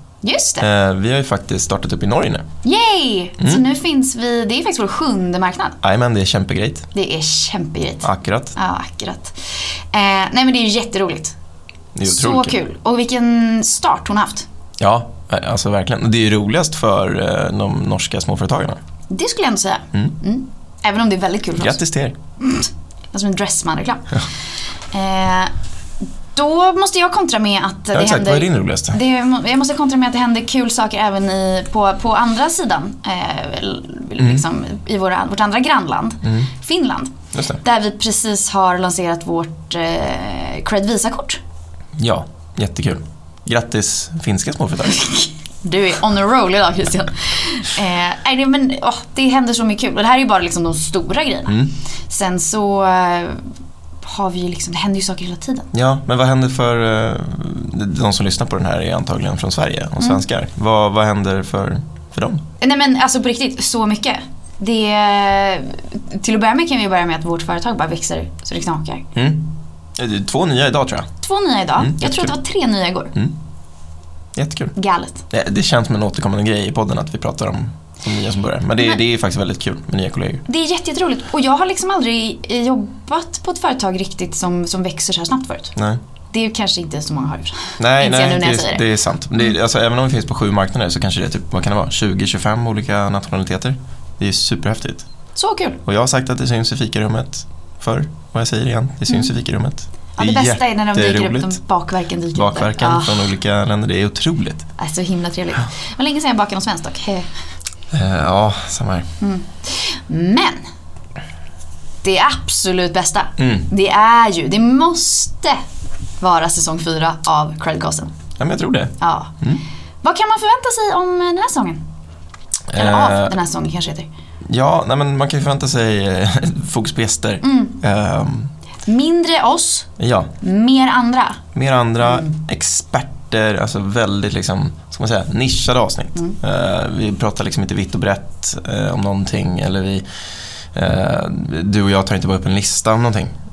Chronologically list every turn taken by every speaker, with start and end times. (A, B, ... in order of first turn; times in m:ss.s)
0:00.2-0:00.7 A
0:00.6-0:02.4 B
0:02.6-0:05.8 A
0:05.8-0:06.9 B
0:06.9-0:11.4 A
0:08.0-0:08.6 B
0:12.0-0:12.6 B
0:12.0-0:14.5 A
0:14.8-0:18.8 B
0:19.1-0:21.8 A
0:21.6-0:22.2 B
0:22.4-0:24.2 A
0:24.9-0:25.5 A
0:26.3-0:41.4 A
0:27.9-0:29.0 B
0:36.2-0:36.5 B
0:37.3-0:37.6 B
0:42.0-0:45.1 B
0:45.0-0:53.5 A
0:54.0-0:55.7 A
0:55.7-1:02.4 B
1:02.6-1:09.1 A
1:09.2-1:11.1 B
1:11.2-1:13.1 A
1:11.8-1:12.4 B
1:14.4-1:14.7 B
1:14.8-1:15.2 A
1:15.3-1:20.4 B
1:20.5-1:25.7 A
1:26.3-1:28.9 A
1:27.8-1:35.0 B
1:35.4-1:35.8 A
1:35.8-1:41.6 B
1:40.2-1:43.3 A
1:42.4-1:44.7 B
1:44.8-1:47.3 A
1:47.9-1:49.1 B
1:49.2-1:50.6 A
1:52.0-1:55.6 A
1:53.4-1:53.7 B
1:56.2-1:58.1 A
1:58.4-1:59.6 B
1:59.0-1:59.4 A
2:00.0-2:01.8 A
2:02.7-2:03.3 B
2:02.7-2:04.1 A
2:04.5-2:08.5 B
2:07.4-2:07.8 A
2:08.9-2:09.9 A
2:10.0-2:10.3 B
2:10.4-2:11.4 A
2:11.5-2:20.0 B
2:12.0-2:12.3 A
2:20.7-2:23.3 B